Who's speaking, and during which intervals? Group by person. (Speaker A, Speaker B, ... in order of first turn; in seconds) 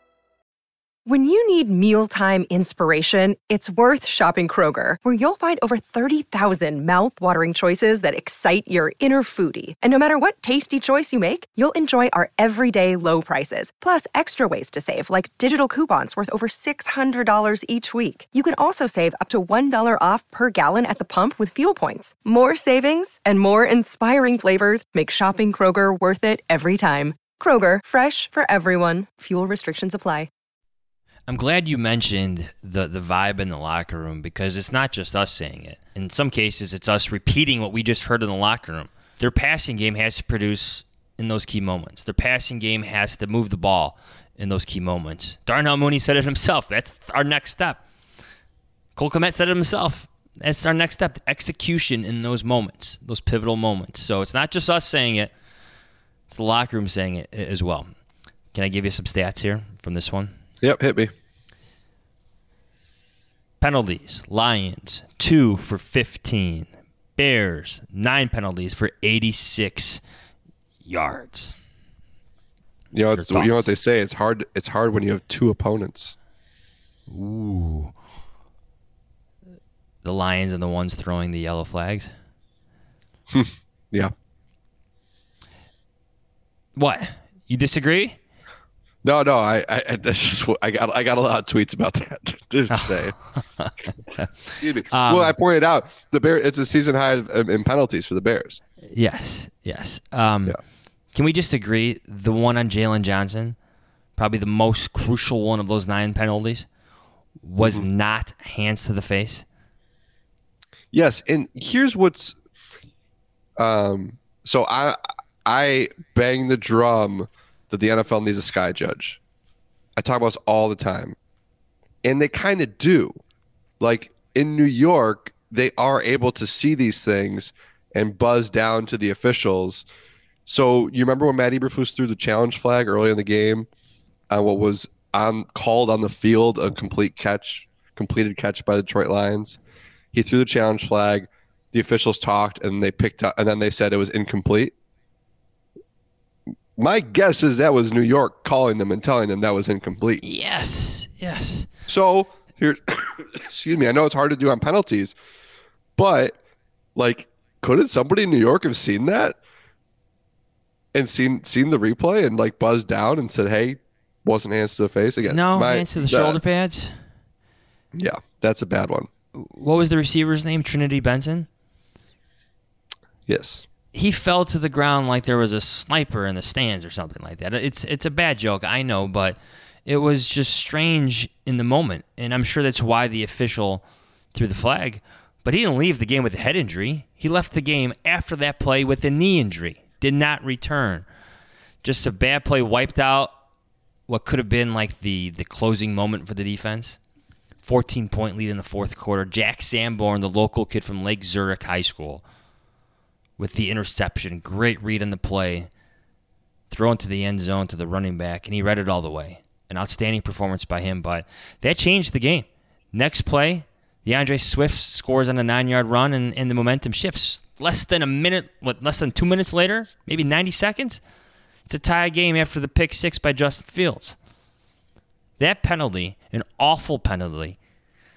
Speaker A: 1.1-30.3
Speaker B: 31.3-47.8, 49.0-55.3, 56.3-57.9, 58.5-60.3, 63.6-70.0, 70.8-71.5, 73.1-73.7, 77.1-77.9, 80.0-82.1, 86.8-88.2, 92.7-95.3, 98.9-100.6, 101.1-103.5, 104.2-106.7, 107.4-109.4, 150.2-151.7, 165.2-166.9, 169.3-171.5, 173.9-191.0, 191.8-193.3, 194.1-197.0, 197.6-202.2, 203.4-205.7, 206.7-221.0, 221.7-224.2, 225.4-227.6
Speaker C: 60.6-61.1, 72.9-76.2, 83.3-84.1, 89.0-93.1, 94.6-98.6, 107.6-107.8, 110.9-112.3, 113.6-119.2, 120.0-121.2, 122.0-123.2, 123.8-129.8, 130.4-133.7, 134.3-139.6, 140.1-144.7, 146.8-150.2, 151.9-155.1, 156.0-156.4, 156.9-159.4, 160.9-166.4, 167.9-169.1, 173.3-173.7